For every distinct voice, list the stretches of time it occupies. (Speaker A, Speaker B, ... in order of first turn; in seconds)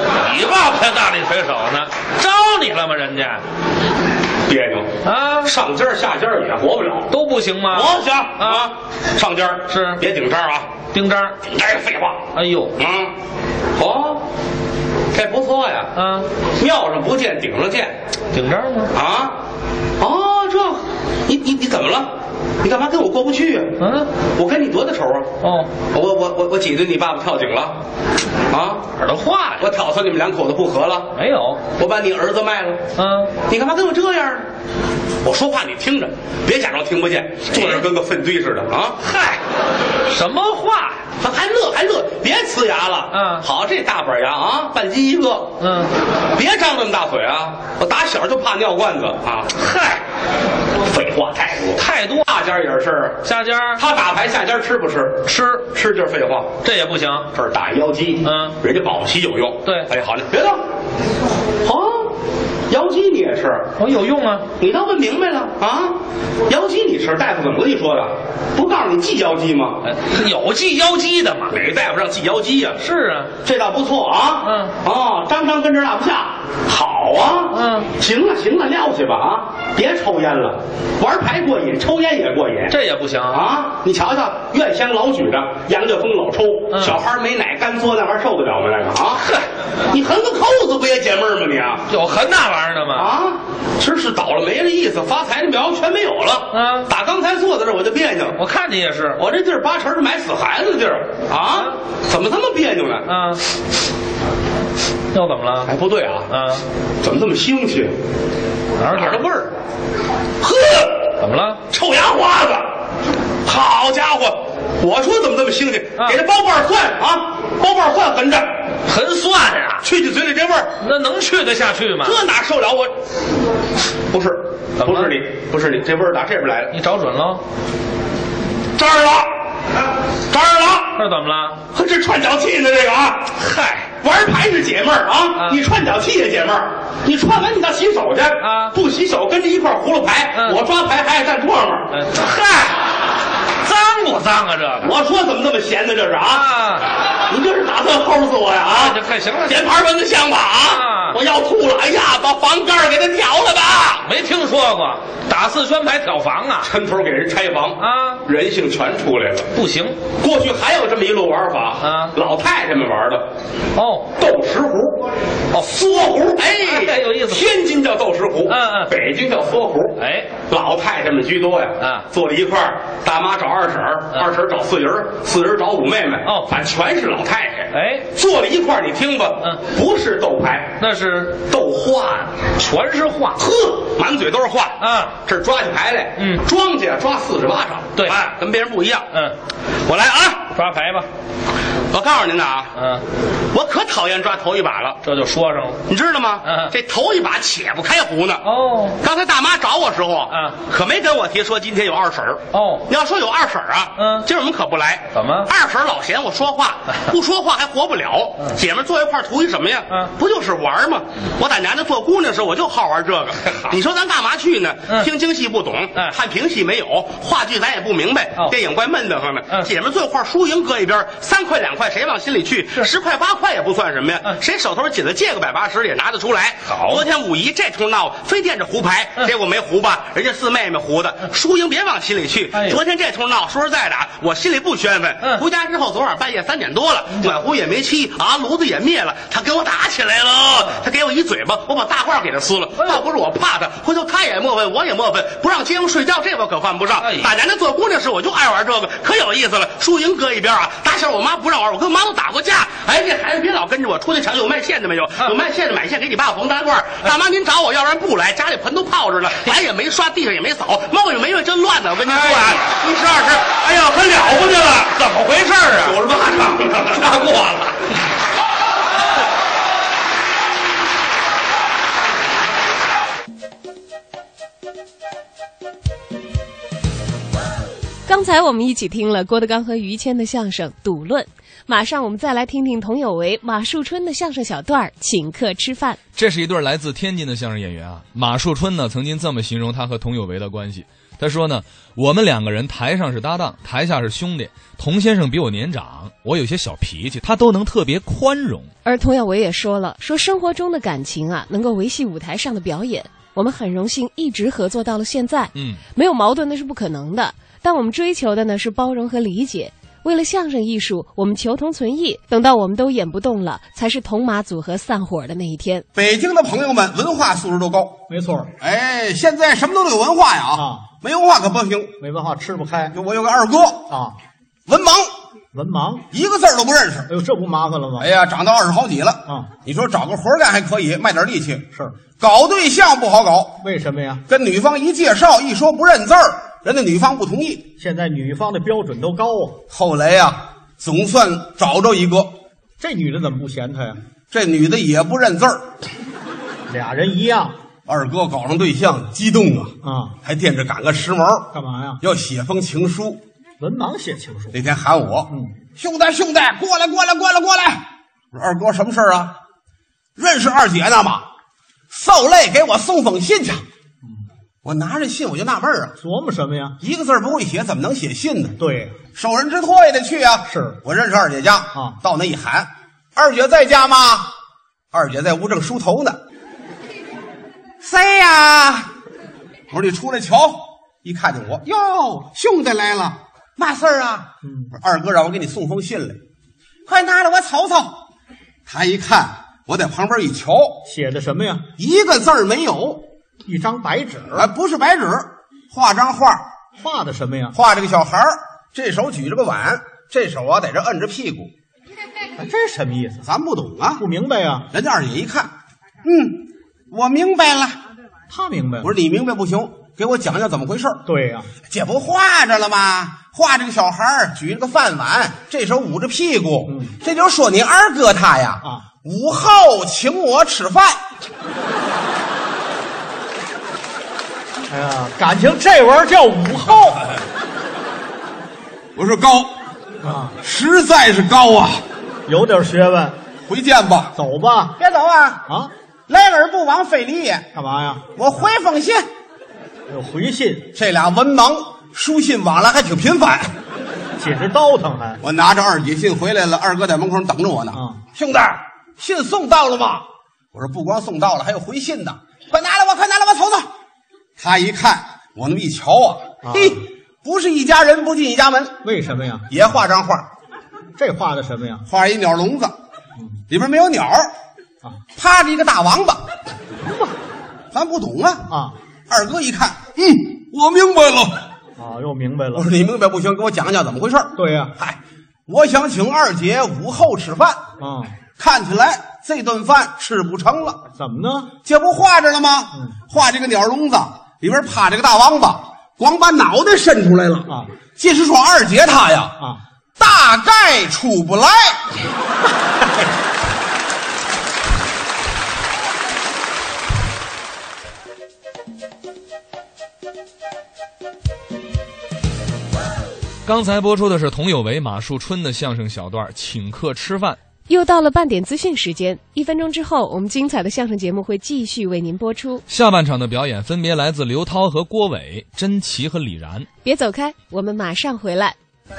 Speaker A: 0.2-3.4, 5.0-5.5, 7.1-8.7, 9.7-10.0, 10.9-11.3, 12.3-12.7, 16.0-16.3, 18.3-18.9, 23.8-24.1, 25.4-25.7, 29.0-29.7, 31.1-31.6, 33.0-33.3, 37.5-37.9, 39.0-39.4, 40.1-41.0, 43.1-43.4, 45.6-45.9, 49.5-50.0, 51.8-52.2, 53.2-53.8, 55.2-55.7, 56.6-57.3, 58.2-58.5, 63.8-64.5, 69.8-71.6, 72.8-73.3, 74.4-74.7, 77.5-77.9, 82.7-83.4, 86.7-87.0, 91.9-93.1, 96.5-96.9, 98.4-99.2, 103.1-103.4, 105.1-105.7, 106.3-106.6, 108.8-109.2, 111.2-111.6, 118.9-119.8, 120.8-122.2, 124.8-125.1, 126.7-127.4, 131.0-131.6, 133.4-133.9, 138.4-138.7, 140.3-140.6, 141.9-142.8, 143.6-144.9, 146.4-146.8, 148.7-149.6, 150.7-151.2, 154.0-156.7, 157.8-158.2, 159.5-160.0, 161.8-162.1, 163.8-164.1, 166.6-167.5, 168.5-168.9, 170.0-170.3, 171.8-172.1, 177.7-178.1, 180.8-181.4, 182.6-183.5, 184.8-185.1, 188.0-188.3, 190.5-191.1, 192.8-193.0, 195.0-195.8, 196.4-196.7, 198.4-199.0, 200.3-200.6, 202.5-202.8, 204.0-204.2, 205.1-205.5, 226.7-227.1, 232.5-232.8, 247.0-247.3, 262.1-262.7, 263.7-266.0, 266.7-267.7
Speaker B: 4.5-4.9, 5.5-7.1, 7.7-10.7, 11.5-12.2, 12.8-13.1, 13.8-14.2, 15.1-15.9, 16.6-17.9, 18.9-19.4, 20.0-22.1, 22.6-23.8, 24.4-25.3, 25.9-27.8, 28.5-28.9, 29.6-31.1, 31.8-32.8, 33.5-34.5, 35.2-39.0, 41.2-45.5, 46.3-49.5, 50.8-53.2, 53.8-56.5, 57.3-60.6, 61.6-62.0, 62.7-63.7, 64.6-66.0, 66.5-69.8, 71.5-72.8, 73.4-82.8, 83.3-89.2, 89.9-91.8, 93.0-98.4, 99.2-103.1, 105.7-106.3, 107.0-107.9, 108.9-109.5, 110.4-111.1, 111.7-112.6, 113.5-118.5, 119.8-120.7, 122.0-122.9, 124.1-126.7, 128.8-129.2, 130.3-130.9, 131.7-133.3, 134.0-141.9, 144.8-146.5, 147.3-154.0, 156.6-159.5, 160.2-163.2, 164.2-165.0, 165.5-170.0, 170.5-180.7, 181.5-182.5, 183.4-189.1, 189.9-190.5, 191.9-192.7, 193.5-195.0, 195.9-198.4, 199.0-264.7, 265.7-267.2
Speaker C: 278.1-286.0, 298.8-315.9, 507.7-512.6, 516.8-518.5
Speaker D: 286.2-298.7, 305.5-305.8, 503.5-507.4, 512.7-516.7
Speaker E: 315.9-318.0, 318.6-321.9, 322.9-323.9, 324.7-325.1, 326.1-327.1, 328.0-333.6, 334.3-337.7, 339.7-342.3, 344.3-345.6, 347.9-353.2, 354.5-357.8, 358.3-359.3, 360.2-361.2, 361.9-363.6, 364.6-365.9, 366.8-368.6, 369.1-374.3, 374.9-376.2, 377.8-378.9, 379.7-386.2, 386.9-388.0, 388.7-390.8, 391.8-393.0, 394.3-396.4, 397.5-401.5, 403.2-404.0, 404.7-405.5, 406.0-407.8, 408.8-411.0, 411.7-421.0, 429.0-429.5, 430.4-431.8, 433.5-434.2, 434.8-435.4, 436.1-437.5, 438.1-439.1, 440.7-443.5, 445.2-453.7, 454.4-458.8, 459.5-460.2, 461.9-462.7, 463.5-464.3, 465.2-466.2, 467.7-468.5, 469.1-471.3, 472.5-477.6, 478.4-480.8, 481.6-489.4, 490.0-491.8
Speaker F: 318.1-318.5, 320.5-320.8, 322.0-322.9, 323.9-324.2, 325.5-326.1, 327.1-328.1, 333.6-334.2, 337.8-339.6, 342.8-344.0, 346.7-347.5, 349.8-350.2, 351.5-352.0, 353.6-354.6, 366.0-366.8, 368.6-369.0, 370.5-370.8, 384.4-384.7, 390.9-391.7, 393.5-394.5, 396.8-397.5, 402.4-403.2, 404.0-404.7, 408.3-408.9, 411.1-411.5, 416.7-416.9, 424.7-427.1, 430.0-430.4, 432.3-433.2, 434.2-434.7, 437.5-438.1, 439.9-440.7, 444.2-445.2, 447.7-448.0, 456.5-456.8, 458.8-459.5, 461.0-461.8, 468.5-468.8, 471.8-472.6, 474.4-474.7, 477.8-478.1, 480.9-481.5